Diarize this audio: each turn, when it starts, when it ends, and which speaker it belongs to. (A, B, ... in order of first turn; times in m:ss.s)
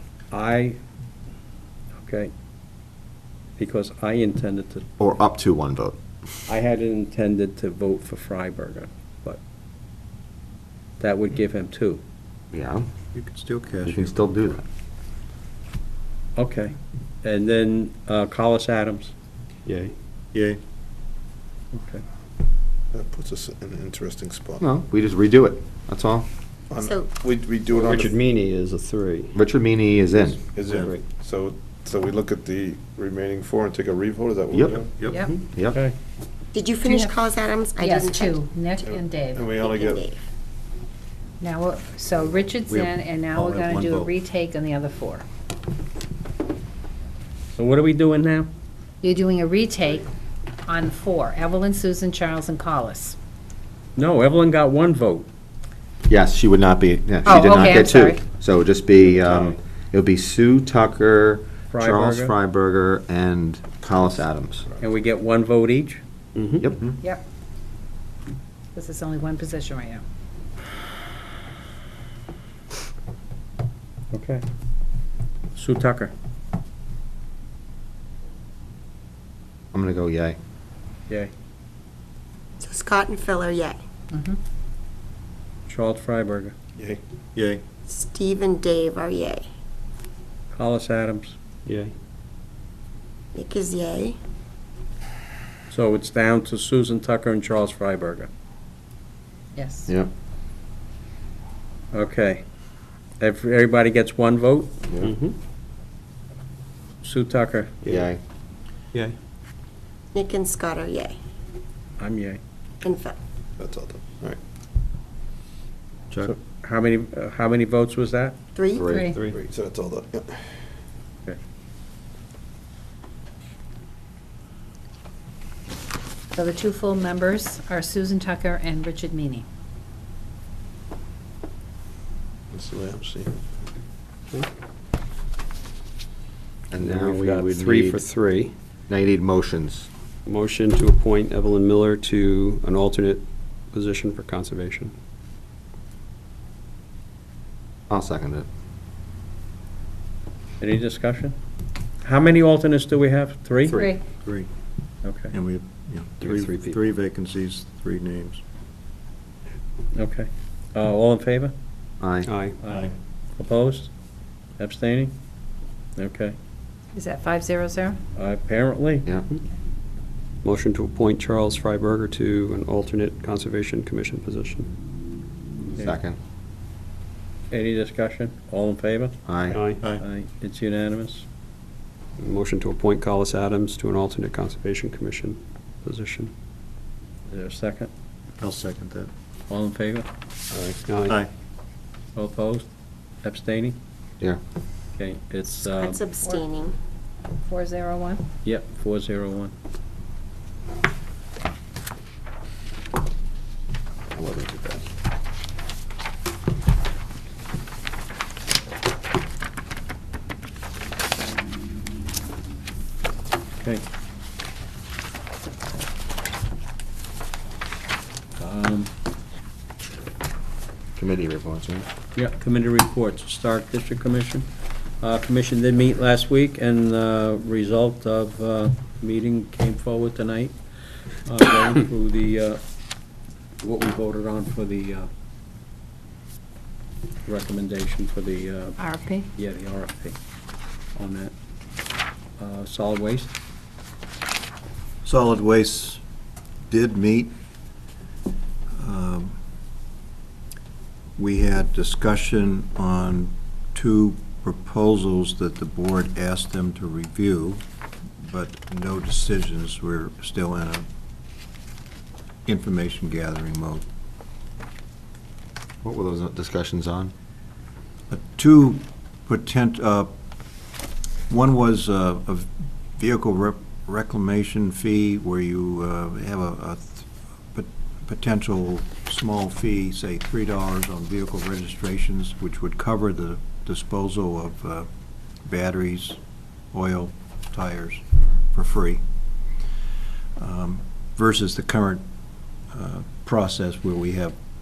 0:00.3-0:00.8 A
0:02.0-0:02.3 A
0:03.6-0:04.9 A
0:05.0-0:06.0 B
0:06.5-0:09.4 A
0:11.0-0:12.0 A
0:12.5-0:12.9 B
0:13.1-0:14.5 C
0:13.8-0:14.6 B
0:16.4-0:19.1 A
0:19.6-0:19.9 D
0:20.3-0:20.6 C
0:21.7-0:22.0 A
0:22.9-0:24.6 E
0:24.6-0:26.3 B
0:26.7-0:28.2 E
0:26.8-0:27.1 F
0:27.7-0:29.3 D
0:29.3-0:30.4 B
0:30.5-0:35.0 E
0:30.7-0:30.9 C
0:30.7-0:31.0 D
0:34.5-0:34.8 B
0:35.0-0:35.3 G
0:35.5-0:35.8 B
0:36.5-0:38.4 F
0:36.8-0:37.2 G
0:37.8-0:39.5 G
0:38.8-0:40.0 E
0:39.5-0:40.2 F
0:41.4-0:45.2 G
0:42.7-0:44.1 C
0:47.6-0:48.5 A
0:49.0-0:50.1 G
0:50.6-0:53.2 G
0:54.0-0:55.3 A
0:56.1-1:04.7 B
0:57.2-0:58.2 G
0:59.0-0:59.5 A
1:01.7-1:02.3 A
1:04.8-1:06.0 A
1:06.3-1:06.7 D
1:06.6-1:07.0 B
1:08.7-1:10.0 G
1:14.1-1:14.4 A
1:15.5-1:16.1 A
1:19.7-1:20.4 B
1:22.6-1:23.8 F
1:24.1-1:24.4 G
1:25.7-1:26.5 A
1:27.4-1:27.6 C
1:27.9-1:29.4 F
1:30.5-1:31.4 A
1:31.6-1:31.9 D
1:33.3-1:34.2 F
1:35.7-1:38.3 A
1:39.5-1:39.9 G
1:41.9-1:42.4 A
1:43.2-1:44.7 A
1:45.0-1:45.4 D
1:47.0-1:47.8 A
1:47.8-1:48.2 B
1:50.1-1:51.1 F
1:52.0-1:52.4 A
1:52.8-1:53.2 F
1:53.6-1:54.4 E
1:56.2-1:58.3 A
1:58.5-1:59.0 F
1:58.7-1:59.1 B
1:58.8-1:59.2 G
1:59.2-2:00.4 E
2:06.3-2:09.4 G
2:12.5-2:13.4 E
2:16.7-2:18.0 B
2:16.8-2:18.5 D
2:18.9-2:19.9 B
2:20.2-2:24.9 D
2:27.9-2:28.5 B
2:30.6-2:31.4 A
2:32.0-2:33.8 A
2:33.7-2:33.9 B
2:33.7-2:34.0 G
2:34.2-2:34.5 C
2:35.0-2:35.3 A
2:35.3-2:38.4 C
2:36.2-2:36.8 D
2:39.9-2:41.5 A
2:42.0-2:42.3 B
2:42.2-2:42.6 D
2:42.6-2:43.9 A
2:44.6-2:45.1 A
2:46.0-2:46.4 A
2:46.9-2:48.0 G
2:48.2-2:49.1 A
2:50.4-2:54.7 D
2:55.6-2:56.2 B
2:57.5-2:59.2 A
2:59.2-2:59.6 B
2:59.5-2:59.8 D
3:00.0-3:01.2 A
3:02.2-3:06.3 D
3:07.3-3:07.9 A
3:08.4-3:09.1 C
3:09.5-3:10.1 A
3:10.5-3:10.8 B
3:10.9-3:11.2 D
3:12.2-3:12.7 A
3:13.2-3:13.8 A
3:15.0-3:16.0 A
3:15.6-3:16.7 F
3:17.4-3:18.2 G
3:18.4-3:19.5 A
3:24.1-3:24.8 B
3:38.4-3:38.9 A
3:41.0-3:41.9 B
3:42.1-3:44.5 A
3:45.0-3:50.6 A
3:51.1-3:52.6 A
3:53.6-3:55.1 A
3:57.2-3:58.8 A
3:58.8-3:59.3 G
3:59.3-4:00.2 A
4:00.9-4:01.3 A
4:02.4-4:03.3 A
4:05.0-4:06.0 C
4:06.7-4:07.3 C
4:08.8-4:09.4 C
4:11.2-4:17.6 C
4:18.2-4:20.8 C
4:22.4-4:23.8 C
4:25.8-4:27.1 B
4:28.1-4:30.1 C
4:31.3-4:44.9 C
4:45.4-4:46.2 C
4:46.7-4:49.0 C
4:50.4-4:52.0 C
4:52.7-4:54.4 C